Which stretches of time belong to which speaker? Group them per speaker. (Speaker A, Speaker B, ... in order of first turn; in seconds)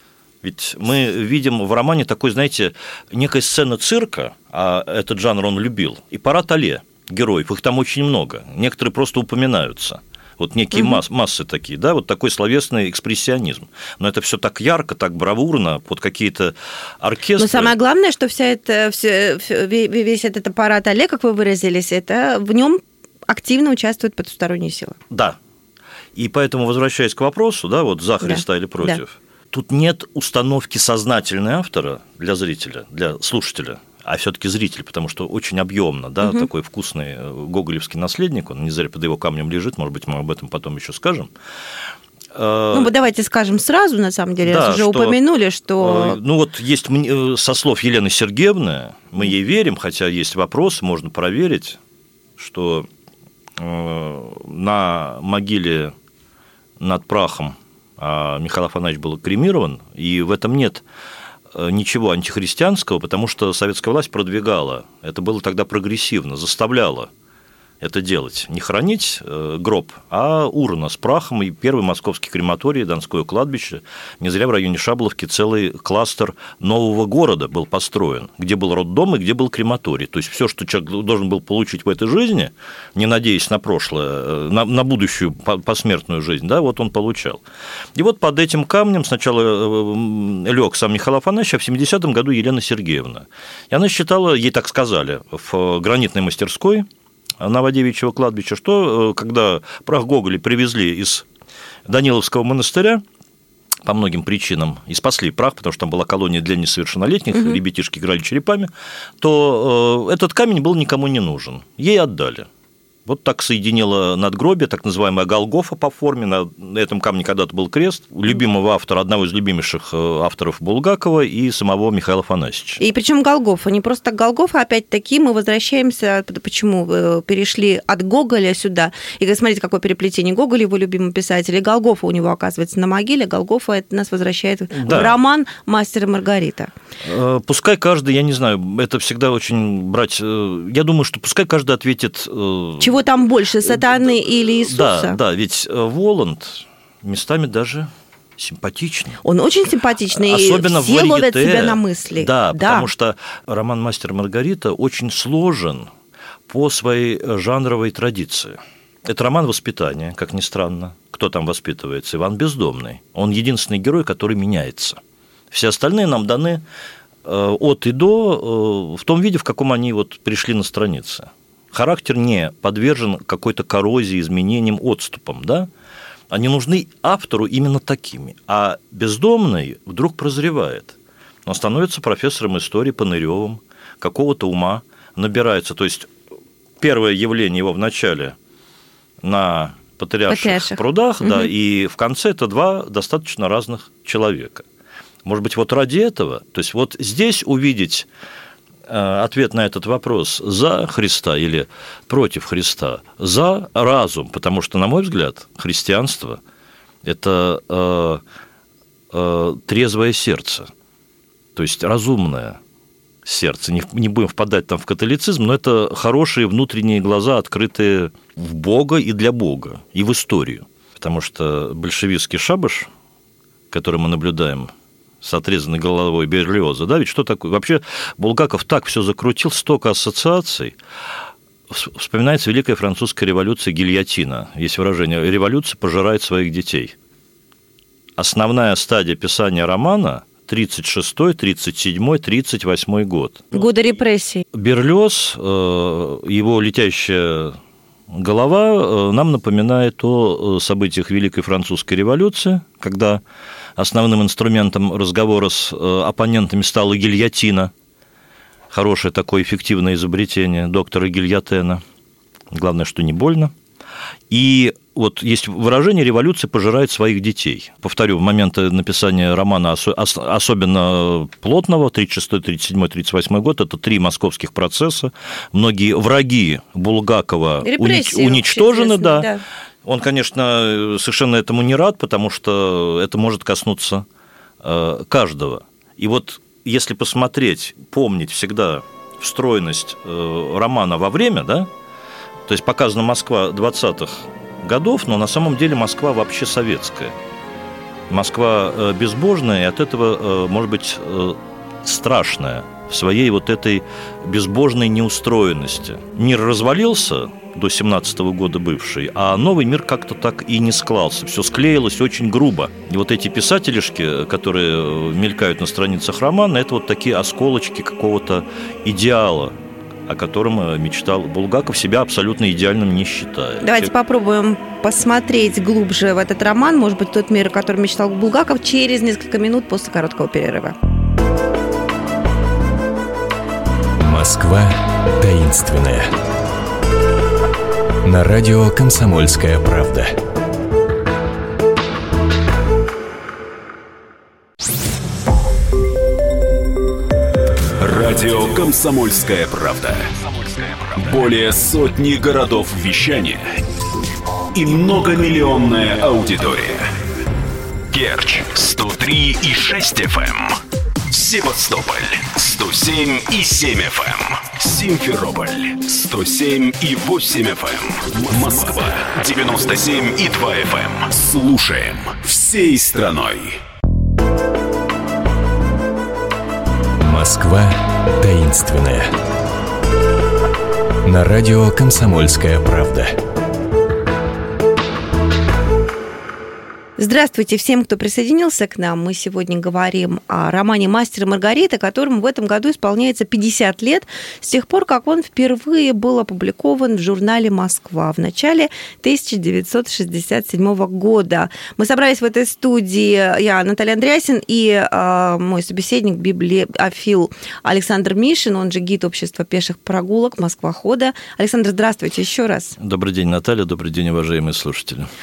Speaker A: 0.4-17.7, 25.1-25.4, 26.1-41.3, 42.3-42.9, 44.4-45.2, 45.8-51.8, 52.4-52.9, 53.6-55.9, 56.8-60.8, 61.5-67.1, 67.8-87.4, 87.9-96.9, 97.4-101.2, 101.8-103.0, 103.8-112.5, 113.0-122.8, 134.7-135.2, 137.0-143.0, 143.7-149.2, 150.1-155.9, 156.5-165.0, 165.5-166.6, 167.2-175.7, 176.3-186.1, 186.8-188.3, 189.2-194.7, 195.2-198.1, 198.9-206.4, 207.0-208.2, 209.1-210.7, 211.5-212.6, 213.2-222.9, 223.7-230.8, 231.7-236.9, 238.2-243.7, 244.5-247.6, 248.1-253.2, 253.8-257.7, 258.7-261.8, 262.5-263.5, 264.3-279.3, 279.8-284.1, 284.6-291.7, 292.5-297.1, 298.1-319.5, 320.1-323.9, 412.8-415.1
Speaker B: 17.4-25.0, 28.2-29.0, 42.7-46.2, 122.8-136.7, 142.8-145.2, 149.2-152.9, 190.3-191.5, 243.5-244.4, 277.6-279.4, 323.6-330.7, 387.0-412.8
Speaker C: 334.0-336.1, 338.0-340.2, 377.0-379.1, 381.0-383.2
Speaker D: 347.8-353.6, 354.5-356.9, 357.9-373.6